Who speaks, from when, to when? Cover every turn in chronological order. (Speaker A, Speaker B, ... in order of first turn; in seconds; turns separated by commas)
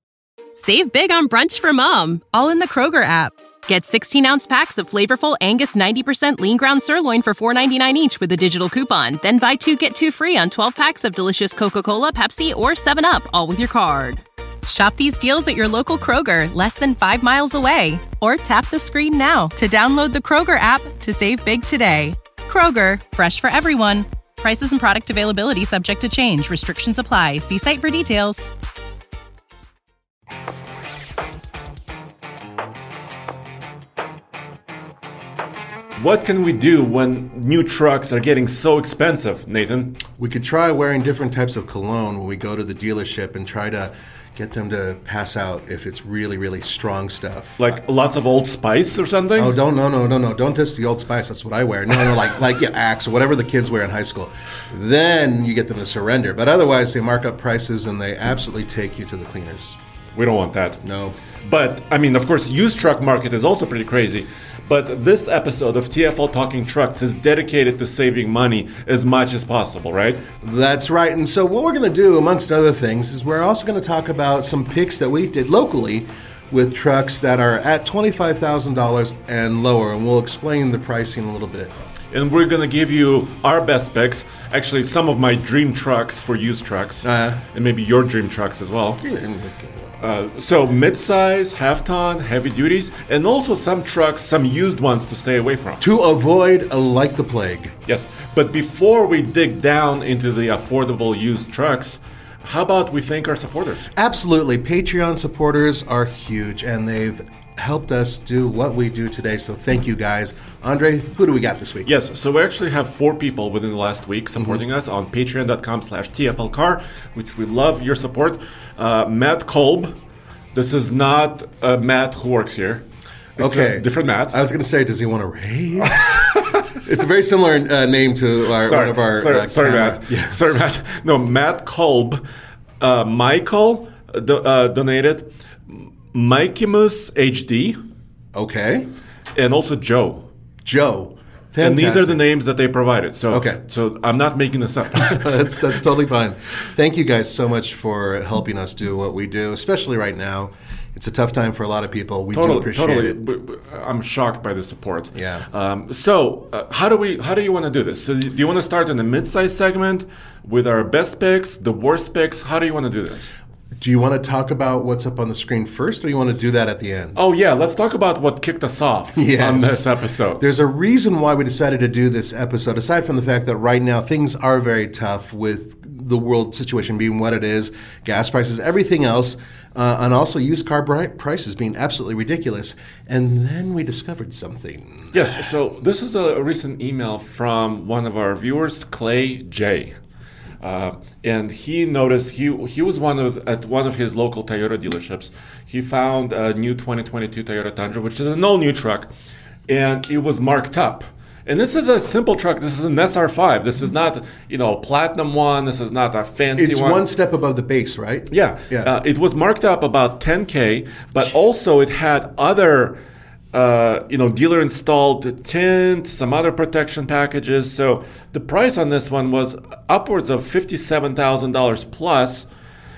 Speaker A: 0.6-28.5, Speaker B: 36.0-40.0, Speaker C: 40.2-47.8, Speaker B: 47.6-49.6, Speaker C: 49.4-59.8, Speaker B: 60.1-60.8, Speaker C: 60.8-61.2, Speaker B: 61.4-70.2, Speaker C: 70.4-81.7, Speaker B: 82.1-89.0, Speaker C: 87.0-87.4, Speaker C: 89.0-89.9, Speaker B: 90.0-95.8, Speaker C: 95.8-97.8, Speaker B: 97.9-103.9, Speaker C: 103.9-111.9, Speaker B: 111.8-119.9, Speaker B: 120.5-122.8, Speaker B: 123.4-124.4, Speaker C: 123.4-130.6, Speaker B: 125.9-126.7, Speaker B: 128.6-132.2, Speaker B: 132.8-137.8, Speaker C: 138.3-138.9, Speaker B: 139.3-140.3, Speaker C: 140.7-142.2, Speaker B: 141.6-145.4, Speaker C: 143.3-143.6, Speaker C: 144.9-153.2, Speaker B: 152.3-163.3, Speaker C: 155.2-155.4, Speaker C: 163.8-167.2, Speaker B: 167.2-170.4, Speaker C: 169.2-169.9, Speaker C: 170.4-185.1, Speaker B: 185.1-189.9, Speaker B: 190.6-199.1, Speaker B: 199.7-207.0, Speaker C: 206.6-208.9, Speaker B: 208.3-213.0, Speaker B: 213.5-222.5